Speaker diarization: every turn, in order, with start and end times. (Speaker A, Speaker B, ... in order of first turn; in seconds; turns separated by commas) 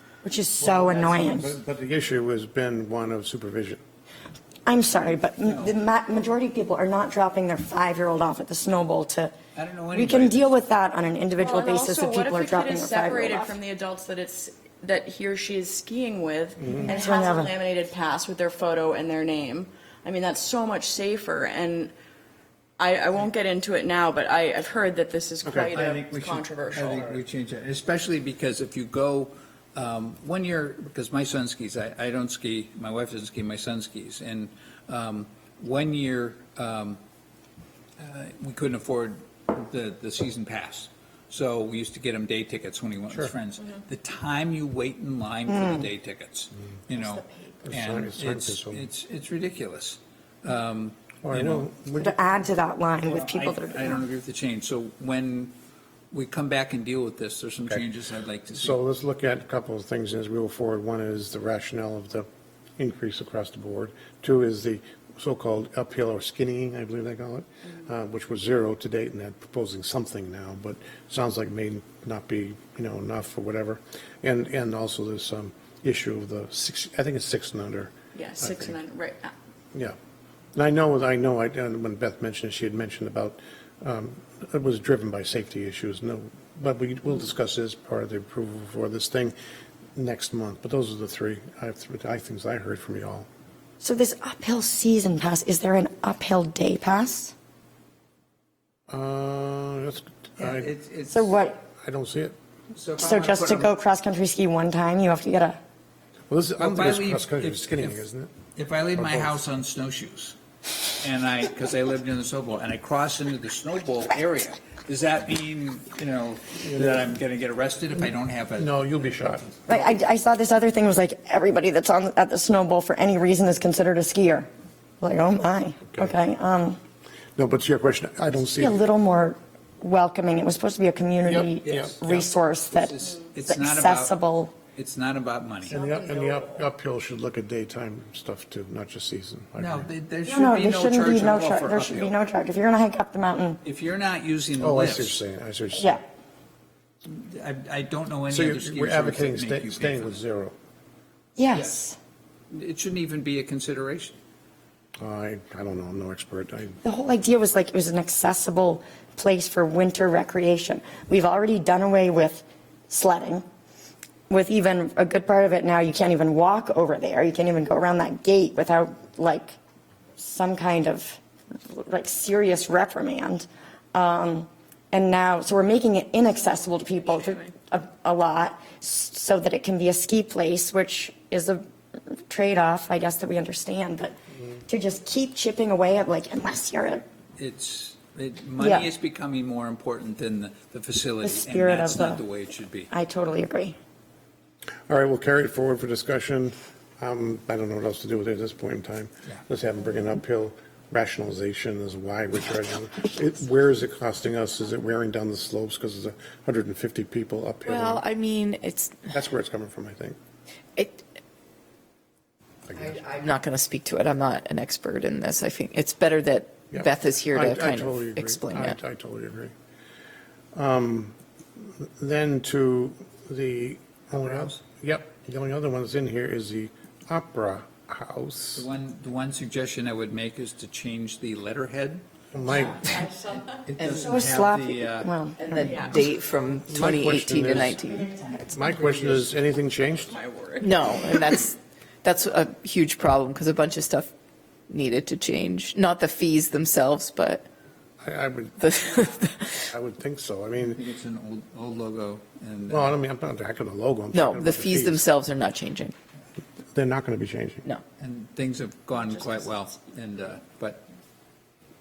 Speaker A: 0.2-1.5, Speaker B: 0.6-3.8, Speaker A: 4.7-9.3, Speaker C: 5.4-5.8, Speaker C: 9.6-10.5, Speaker A: 9.9-13.6, Speaker D: 11.4-21.9, Speaker B: 16.6-16.9, Speaker A: 16.8-17.5, Speaker D: 22.8-27.1, Speaker B: 25.4-25.7, Speaker C: 25.6-37.0, Speaker C: 38.0-51.7, Speaker A: 45.5-45.9, Speaker E: 47.2-47.5, Speaker B: 47.6-48.9, Speaker B: 51.2-52.2, Speaker A: 52.0-54.0, Speaker C: 53.0-55.5, Speaker C: 56.1-58.8, Speaker B: 58.5-62.3, Speaker B: 62.8-78.7, Speaker D: 78.1-79.3, Speaker B: 80.5-89.3, Speaker B: 90.0-93.3, Speaker A: 93.8-97.3, Speaker B: 98.9-100.7, Speaker C: 100.4-101.3, Speaker A: 101.1-101.6, Speaker B: 101.8-102.3, Speaker C: 102.7-103.7, Speaker A: 103.0-105.6, Speaker B: 106.3-108.3, Speaker C: 106.6-108.0, Speaker C: 108.5-110.4, Speaker B: 108.9-109.4, Speaker C: 111.0-119.0, Speaker B: 116.6-117.1, Speaker B: 118.6-119.5, Speaker A: 119.7-124.5, Speaker A: 125.0-126.8, Speaker B: 125.9-126.2, Speaker B: 127.3-128.8, Speaker A: 128.5-134.5, Speaker B: 131.2-131.9, Speaker C: 131.6-134.1, Speaker C: 134.7-135.7, Speaker B: 135.6-139.9, Speaker C: 139.6-142.1, Speaker A: 140.2-143.6, Speaker C: 143.6-145.2, Speaker B: 144.6-146.0, Speaker A: 145.8-146.0, Speaker C: 147.0-150.2, Speaker B: 148.3-150.5, Speaker A: 151.4-151.9, Speaker C: 151.5-151.8, Speaker C: 152.5-154.2, Speaker B: 155.0-156.8, Speaker A: 156.8-163.4, Speaker A: 164.3-169.6, Speaker A: 170.2-181.6, Speaker D: 177.1-177.5, Speaker A: 182.3-184.2, Speaker A: 184.7-187.0, Speaker C: 187.4-192.9, Speaker A: 188.6-188.9, Speaker A: 191.2-192.2, Speaker A: 192.9-193.8, Speaker B: 194.9-208.0, Speaker E: 207.7-209.1, Speaker B: 209.1-210.2, Speaker E: 210.8-211.0, Speaker B: 212.7-213.0, Speaker E: 212.7-218.8, Speaker B: 216.7-219.5, Speaker B: 220.5-228.7, Speaker C: 224.2-224.5, Speaker C: 228.5-232.0, Speaker B: 232.3-233.0, Speaker D: 232.4-233.6, Speaker C: 233.6-235.1, Speaker E: 233.8-234.2, Speaker A: 234.0-235.9, Speaker E: 235.4-238.4, Speaker D: 235.6-236.0, Speaker B: 236.7-237.8, Speaker B: 238.5-240.1, Speaker D: 238.9-239.3, Speaker D: 240.0-241.4, Speaker E: 240.6-244.1, Speaker E: 244.7-247.5, Speaker B: 248.0-248.8, Speaker E: 248.6-249.7, Speaker B: 249.7-250.8, Speaker C: 250.6-252.9, Speaker B: 252.7-255.1, Speaker E: 254.1-255.9, Speaker B: 256.7-257.6, Speaker C: 258.0-260.9